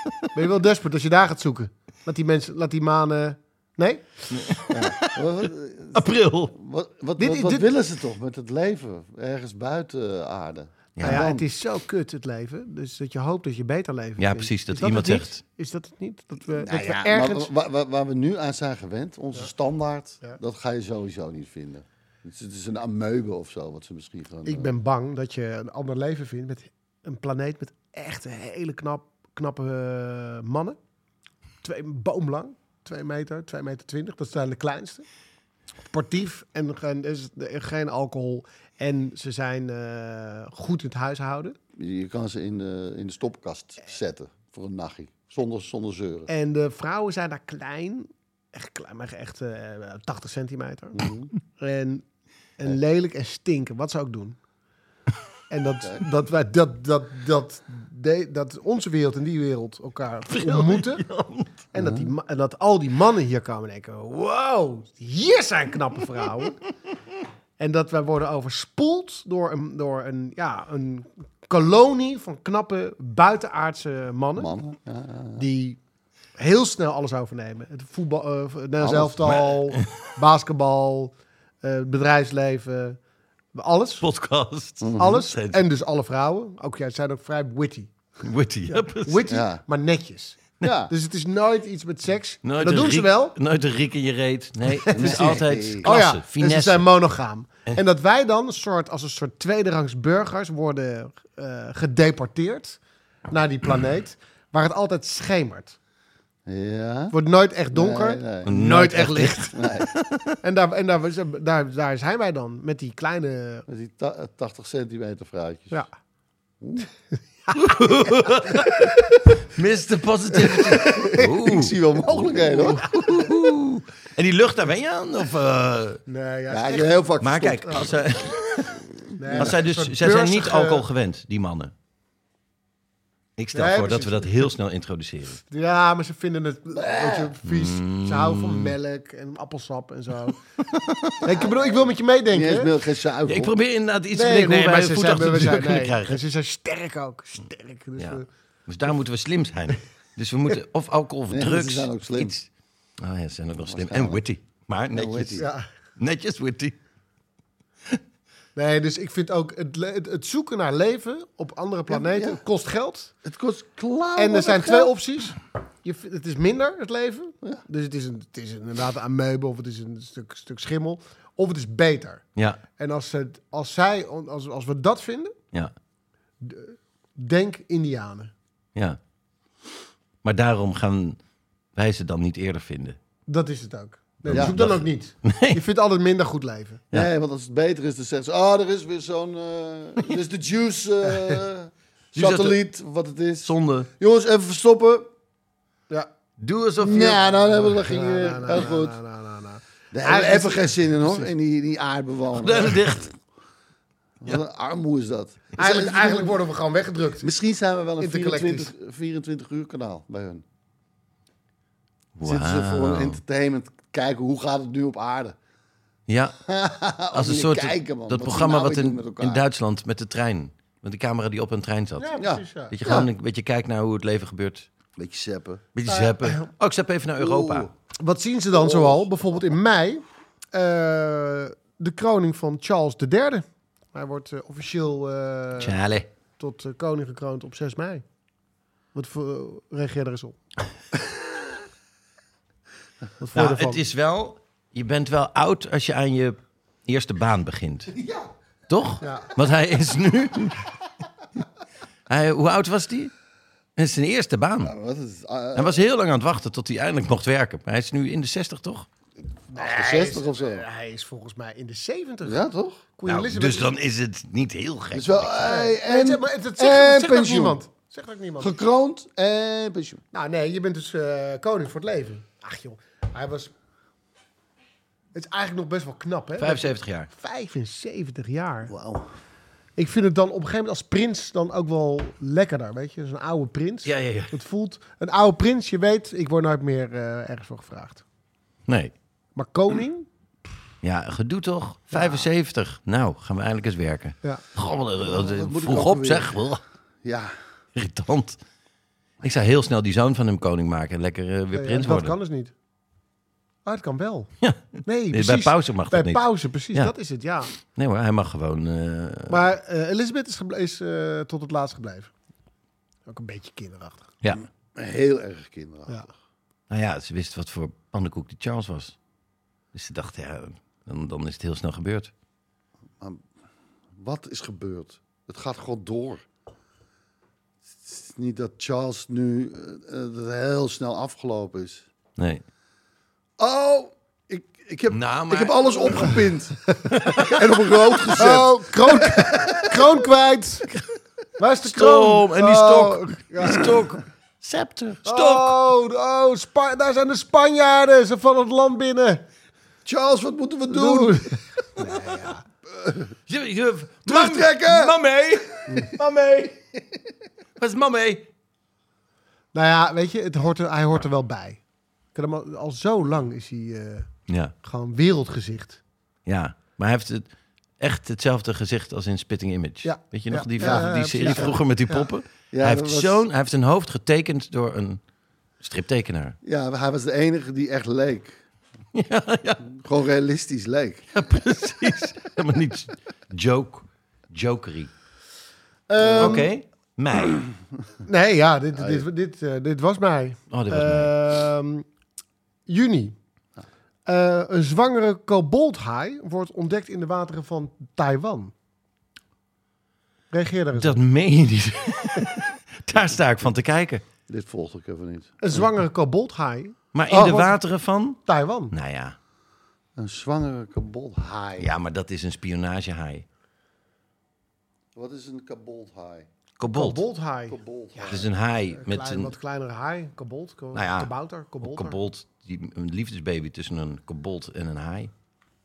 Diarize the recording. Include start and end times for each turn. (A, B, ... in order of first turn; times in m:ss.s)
0:00.3-0:04.0 A
0:04.3-0:05.2 B
0:04.7-0:11.4 C
0:05.9-0:06.5 B
0:07.2-0:07.7 A
0:11.0-0:11.3 B
0:11.0-0:17.5 A
0:14.2-0:15.4 B
0:16.5-0:24.7 C
0:24.4-0:30.8 A
0:31.6-0:35.0 A
0:35.9-0:41.6 A
0:41.8-0:46.3 C
0:46.3-0:51.0 A
0:50.9-0:51.3 C
0:51.6-0:52.0 A
0:52.6-0:54.4 A
0:55.5-1:01.0 A
1:00.3-1:01.5 B
1:01.7-1:06.6 A
1:01.7-1:02.1 C
1:07.6-1:14.5 A
1:14.4-1:15.4 C
1:15.4-1:15.8 A
1:16.4-1:23.0 A
1:18.8-1:19.4 C
1:19.2-1:19.9 B
1:23.6-1:24.1 A
1:24.0-1:25.6 B
1:24.8-1:25.2 C
1:25.0-1:27.9 A
1:28.2-1:29.4 B
1:28.7-1:33.4 A
1:29.3-1:29.6 C
1:30.6-1:30.9 C
1:32.4-1:36.9 B
1:34.7-1:45.8 A
1:34.9-1:36.0 C
1:46.5-1:47.2 C
1:47.1-1:49.6 A
1:47.7-1:48.5 C
1:48.5-1:50.3 B
1:49.5-1:49.9 C
1:50.4-1:53.6 A
1:53.7-1:55.9 C
1:56.6-1:56.9 C
1:57.6-2:06.0 B
2:00.8-2:02.8 C
2:06.1-2:07.0 A
2:06.5-2:08.0 C
2:07.2-2:11.7 B
2:09.2-2:10.8 A
2:09.3-2:09.6 C
2:13.4-2:15.4 B
2:13.5-2:14.5 A
2:15.5-2:20.4 A
2:16.7-2:17.3 C
2:17.4-2:18.8 B
2:20.6-2:21.2 B
2:21.2-2:22.7 A
2:21.3-2:23.5 C
2:23.3-2:26.2 B
2:24.1-2:28.3 A
2:28.0-2:32.5 B
2:31.3-2:32.3 C
2:33.0-2:35.4 B
2:33.7-2:34.2 C
2:34.9-2:35.5 C
2:35.4-2:35.6 A
2:36.0-2:36.8 B
2:38.6-2:43.1 A
2:41.9-2:42.4 C
2:43.2-2:44.9 C
2:44.2-2:52.2 A
2:52.8-2:55.4 A
2:56.4-2:58.3 A
3:00.2-3:01.2 B
3:01.8-3:03.0 B
3:03.3-3:06.8 A
3:04.2-3:05.6 B
3:04.3-3:04.6 C
3:06.9-3:15.1 C
3:12.2-3:12.6 B
3:13.4-3:13.9 B
3:16.4-3:17.3 B
3:16.8-3:19.0 C
3:17.5-3:21.3 A
3:19.9-3:23.0 C
3:22.4-3:23.1 B
3:24.2-3:26.4 C
3:25.6-3:27.3 A
3:27.2-3:30.4 C
3:28.0-3:28.7 A
3:32.2-3:33.2 B
3:32.2-3:35.4 C
3:36.1-3:36.4 B
3:36.5-3:39.4 C
3:37.1-3:42.1 B
3:42.0-3:42.7 A
3:42.2-3:43.1 C
3:42.7-3:44.7 B
3:45.0-3:45.6 C
3:45.8-3:47.7 B
3:45.9-3:46.5 A
3:47.2-3:47.7 C
3:48.0-3:55.8 A
3:48.5-3:49.1 C
3:55.6-3:56.1 B
3:56.4-3:58.0 A
3:59.0-4:00.4 A
4:03.2-4:03.8 A
4:03.4-4:07.9 B
4:07.9-4:08.3 C
4:08.7-4:10.7 B
4:09.0-4:09.3 A
4:12.1-4:13.1 B
4:13.8-4:14.7 B
4:14.6-4:15.8 C
4:15.6-4:18.9 B
4:19.5-4:22.4 A
4:19.5-4:20.6 C
4:22.2-4:22.8 C
4:23.0-4:23.7 A
4:23.1-4:25.3 B
4:24.9-4:27.6 C
4:25.4-4:28.6 A
4:28.4-4:30.0 C
4:30.1-4:33.5 A
4:35.1-4:38.7 A
4:36.4-4:37.1 B
4:38.7-4:39.1 C
4:39.8-4:48.0 A
4:43.8-4:44.4 B
4:48.7-4:48.9 B
4:49.4-4:50.1 A
4:50.8-4:56.6 B
4:51.9-4:52.2 A
4:55.0-4:56.5 C
4:57.0-4:57.4 C
4:57.8-4:58.4 B
4:59.2-5:02.2 B
5:01.5-5:02.5 A
5:03.6-5:04.3 A
5:04.8-5:07.5 A
5:05.1-5:06.9 B
5:07.6-5:09.4 B
5:09.3-5:12.1 A
5:13.1-5:14.1 A
5:14.7-5:16.1 C
5:16.7-5:19.0 B
5:19.7-5:22.1 B
5:24.0-5:26.2 C
5:27.7-5:31.9 C
5:33.4-5:39.8 C
5:34.9-5:36.2 B
5:36.9-5:37.8 B
5:38.1-5:40.7 A
5:41.4-5:43.8 A
5:41.6-5:45.6 B
5:45.0-5:49.2 A
5:49.8-5:51.2 C
5:50.7-5:52.4 A
5:52.7-5:53.1 C
5:53.3-5:56.1 B
5:54.1-5:55.0 C
5:55.7-5:56.0 A
5:57.6-5:58.3 B
5:59.5-6:01.6 A
6:02.2-6:04.1 A
6:04.3-6:04.5 B
6:04.6-6:05.8 A
6:06.3-6:07.3 B
6:07.8-6:15.0 B
6:09.8-6:12.1 A
6:10.6-6:11.6 C
6:12.5-6:13.2 C
6:15.6-6:16.4 B
6:16.4-6:18.4 C
6:19.0-6:19.7 B
6:19.7-6:21.1 C
6:21.1-6:24.9 B
6:25.9-6:26.5 A
6:26.0-6:26.5 C
6:26.2-6:27.5 B
6:28.0-6:31.9 A
6:28.8-6:29.0 C
6:30.5-6:31.1 B
6:32.7-6:33.2 A
6:34.1-6:38.5 A
6:40.3-6:41.0 A
6:40.8-6:44.0 B
6:43.0-6:43.5 C
6:44.3-6:45.7 C
6:45.4-6:47.6 A
6:46.9-6:49.2 B
6:48.3-6:48.7 A
6:50.0-6:51.7 C
6:51.6-6:53.2 B
6:55.0-6:56.3 C
6:56.6-6:57.0 B
6:56.8-7:02.0 A
6:57.5-6:58.3 C
6:58.1-6:59.3 B
7:00.7-7:05.1 B